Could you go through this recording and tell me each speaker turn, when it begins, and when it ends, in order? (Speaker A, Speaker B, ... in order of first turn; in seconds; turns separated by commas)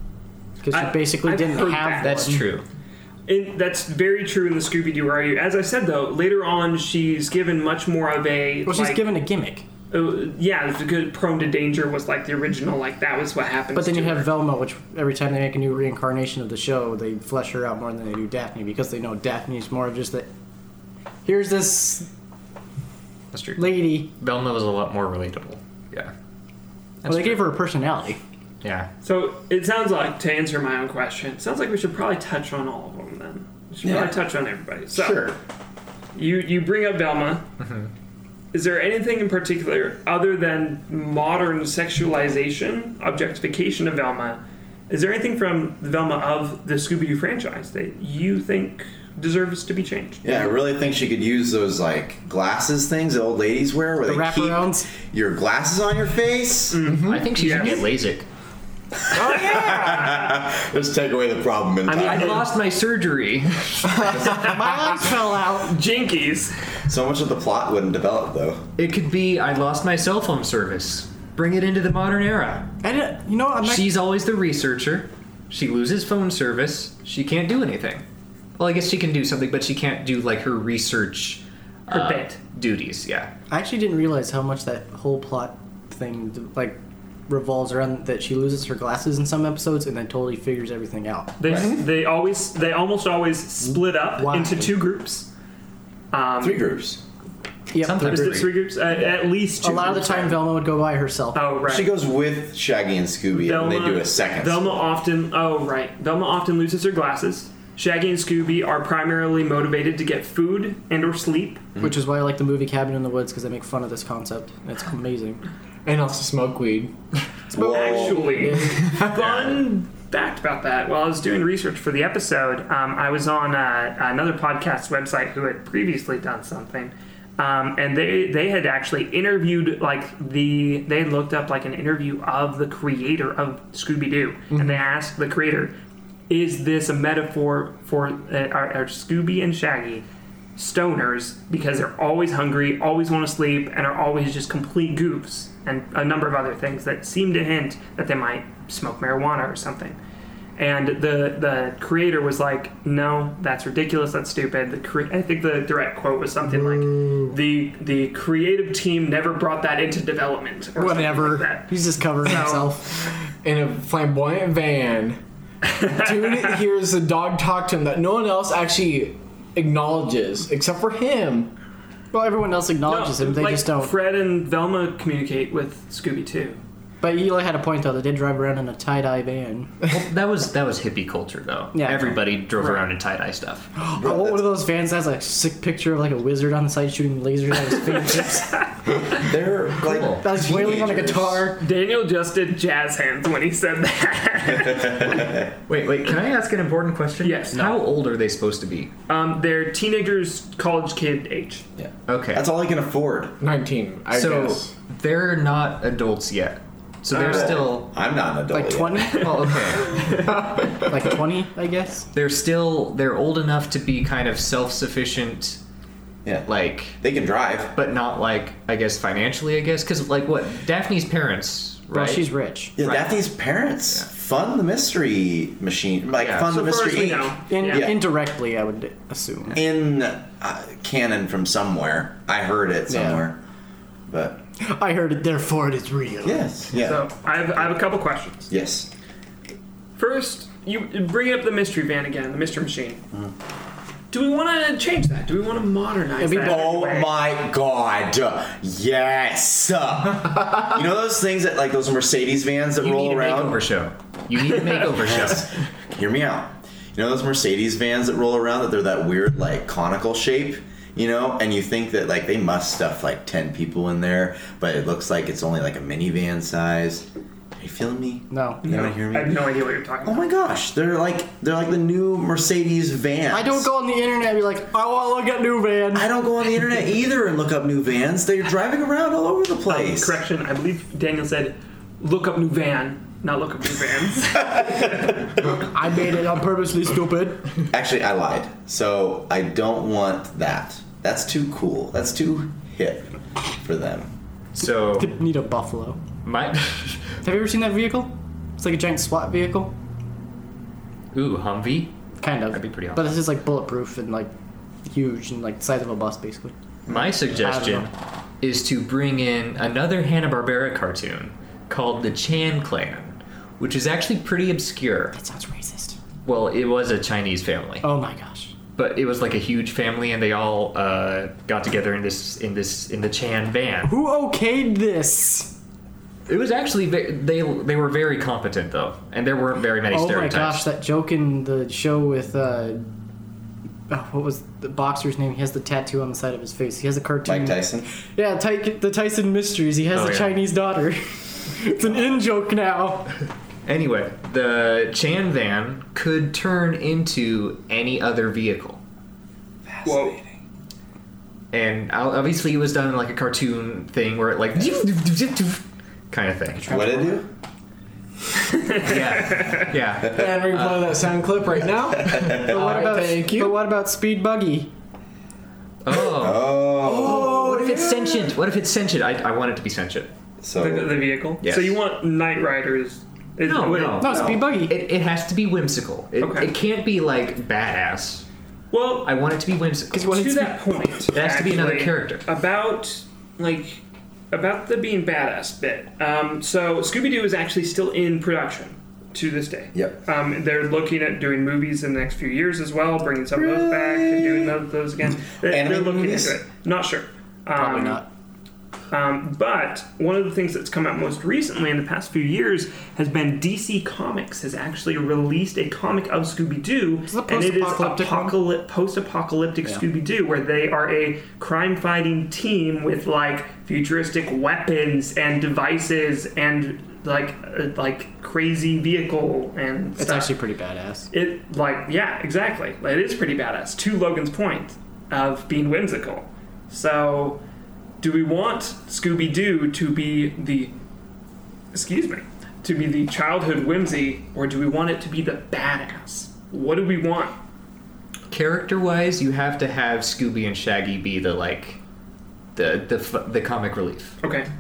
Speaker A: 0.6-2.5, Speaker B: 0.7-2.3, Speaker C: 2.0-2.6, Speaker B: 3.3-9.1, Speaker A: 8.7-9.7, Speaker B: 9.9-14.3, Speaker A: 13.8-20.3, Speaker A: 21.2-22.1, Speaker C: 23.3-26.1, Speaker A: 23.6-24.1, Speaker C: 27.0-27.5, Speaker A: 27.1-28.2, Speaker C: 28.6-28.9, Speaker B: 29.0-35.3, Speaker D: 33.8-34.2, Speaker B: 36.1-37.5, Speaker C: 37.6-37.9, Speaker B: 38.5-50.5, Speaker D: 50.2-56.8, Speaker A: 54.0-54.9, Speaker B: 56.7-57.9, Speaker E: 56.9-57.3, Speaker C: 57.0-58.3, Speaker D: 59.1-62.5, Speaker B: 59.1-60.3, Speaker B: 61.9-62.5, Speaker C: 62.0-64.5, Speaker A: 64.2-65.8, Speaker B: 65.5-66.5, Speaker D: 66.9-68.7, Speaker C: 68.8-72.7, Speaker A: 72.8-73.9, Speaker C: 73.6-78.0, Speaker C: 78.6-83.3, Speaker B: 81.9-82.4, Speaker A: 83.5-91.3, Speaker B: 91.4-95.3, Speaker D: 91.5-91.8, Speaker E: 91.5-91.8, Speaker A: 94.2-94.8, Speaker B: 96.1-96.7, Speaker D: 96.4-97.0, Speaker A: 97.7-98.5, Speaker C: 97.8-98.6, Speaker B: 98.0-100.4, Speaker A: 99.6-101.4, Speaker B: 101.3-101.9, Speaker D: 101.7-104.8, Speaker B: 103.3-111.7, Speaker A: 111.8-115.4, Speaker E: 115.8-116.9, Speaker D: 117.5-118.5, Speaker B: 117.5-135.8, Speaker A: 117.6-118.0, Speaker E: 117.9-119.2, Speaker C: 119.2-119.5, Speaker B: 136.3-150.0, Speaker B: 150.6-162.8, Speaker E: 156.5-157.1, Speaker A: 160.8-163.1, Speaker E: 163.4-165.2, Speaker B: 165.6-166.6, Speaker E: 165.8-171.5, Speaker A: 172.1-173.9, Speaker B: 172.9-176.6, Speaker A: 177.0-179.7, Speaker C: 179.9-183.7, Speaker A: 181.7-182.2, Speaker B: 182.6-182.8, Speaker A: 183.8-188.6, Speaker D: 184.0-184.5, Speaker D: 189.0-191.5, Speaker C: 189.8-190.3, Speaker A: 190.2-191.6, Speaker B: 191.6-195.3, Speaker D: 194.7-195.5, Speaker C: 195.7-198.9, Speaker B: 197.2-197.8, Speaker B: 199.1-201.7, Speaker D: 201.8-203.4, Speaker C: 202.1-202.5, Speaker E: 203.4-204.7, Speaker C: 204.1-207.9, Speaker B: 207.1-207.6, Speaker D: 207.2-209.2, Speaker A: 208.5-212.1, Speaker C: 209.2-210.1, Speaker C: 212.1-215.6, Speaker D: 216.2-217.8, Speaker C: 216.5-217.0, Speaker C: 217.8-222.3, Speaker A: 221.9-222.8, Speaker D: 222.8-228.0, Speaker C: 222.8-223.1, Speaker C: 226.2-226.5, Speaker B: 226.5-227.9, Speaker A: 227.5-229.6, Speaker D: 229.5-233.4, Speaker A: 232.9-233.2, Speaker D: 234.1-234.4, Speaker A: 234.6-236.4, Speaker D: 236.2-237.1, Speaker B: 236.8-238.5, Speaker D: 238.5-238.9, Speaker B: 240.0-243.0, Speaker B: 244.1-247.1, Speaker A: 246.2-246.7, Speaker D: 246.3-253.6, Speaker C: 252.8-255.5, Speaker D: 254.9-267.1, Speaker D: 267.6-269.4, Speaker A: 268.3-268.6, Speaker B: 268.6-270.3, Speaker D: 270.0-273.7, Speaker A: 273.3-276.1, Speaker D: 275.9-280.2, Speaker B: 279.7-285.2, Speaker D: 284.5-284.8, Speaker A: 285.7-287.5, Speaker D: 287.7-294.1, Speaker C: 294.6-295.1, Speaker A: 295.0-296.0, Speaker C: 296.2-297.1, Speaker A: 297.2-299.7, Speaker C: 301.1-301.9, Speaker A: 302.2-304.3, Speaker C: 302.5-303.2, Speaker A: 304.9-306.5, Speaker D: 306.9-307.2, Speaker C: 306.9-315.2, Speaker A: 307.3-307.9, Speaker A: 315.1-316.0, Speaker C: 316.2-317.9, Speaker A: 317.8-318.6, Speaker C: 318.8-323.9, Speaker A: 323.9-325.6, Speaker C: 326.3-330.6, Speaker A: 329.9-332.9, Speaker A: 333.9-343.2, Speaker D: 337.2-337.9, Speaker C: 339.9-340.4, Speaker C: 343.6-348.8, Speaker D: 349.7-350.3, Speaker B: 349.8-350.2, Speaker C: 351.5-356.8, Speaker A: 356.6-357.2, Speaker D: 356.7-357.3, Speaker B: 358.4-359.7, Speaker C: 358.8-360.3, Speaker D: 360.1-361.0, Speaker E: 360.1-363.6, Speaker D: 361.9-362.8, Speaker A: 362.4-364.7, Speaker C: 365.8-366.6, Speaker D: 365.9-367.8, Speaker E: 366.8-368.3, Speaker C: 367.3-370.1, Speaker D: 370.4-371.0, Speaker B: 370.6-374.1, Speaker C: 371.4-371.8, Speaker C: 373.5-378.2, Speaker A: 374.0-374.8, Speaker B: 376.2-376.5, Speaker B: 378.7-379.1, Speaker C: 379.0-380.2, Speaker A: 379.9-380.9, Speaker B: 380.1-398.0, Speaker C: 381.1-382.3, Speaker D: 389.7-390.0, Speaker D: 393.3-394.6, Speaker D: 395.3-396.4, Speaker A: 397.6-398.1, Speaker B: 398.9-420.3, Speaker A: 407.1-408.4, Speaker A: 420.0-421.1, Speaker B: 421.1-427.4, Speaker B: 428.0-430.7, Speaker B: 431.7-437.4, Speaker C: 438.3-441.8, Speaker C: 442.6-444.1, Speaker B: 444.2-444.5